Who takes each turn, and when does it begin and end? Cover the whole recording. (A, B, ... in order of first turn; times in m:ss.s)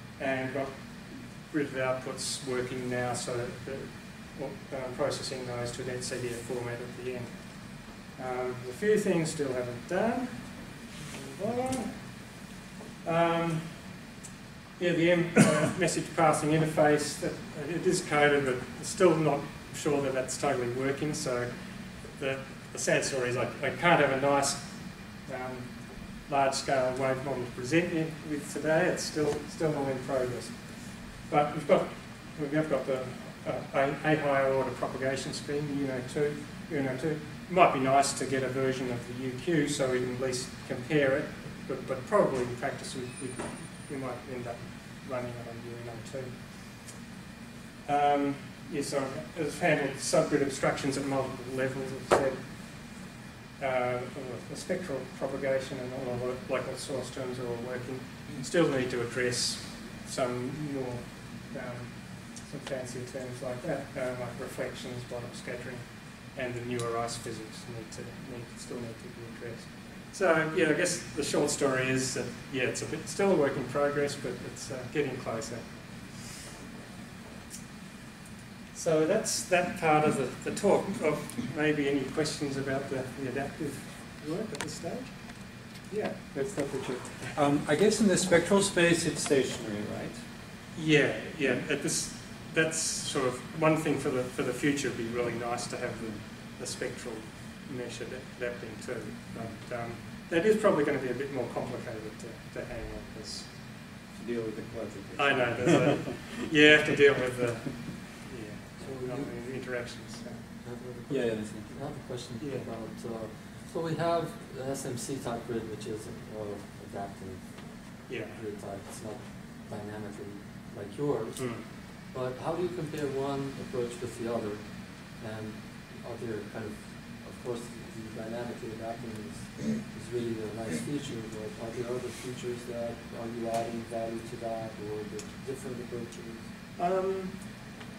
0:00.2-0:12.4 A
0:13.0-0:14.0 A
0:14.8-0:47.1 A
0:47.8-1:16.3 A
1:18.7-1:26.3 A
1:26.1-1:30.3 B
1:30.7-1:44.0 A
1:44.1-1:46.2 B
1:45.1-1:50.6 A
1:48.8-1:49.8 C
1:50.6-2:16.5 C
1:51.1-1:51.7 B
1:52.4-1:52.7 A
1:58.1-1:58.4 A
2:01.4-2:01.7 A
2:16.8-2:17.8 A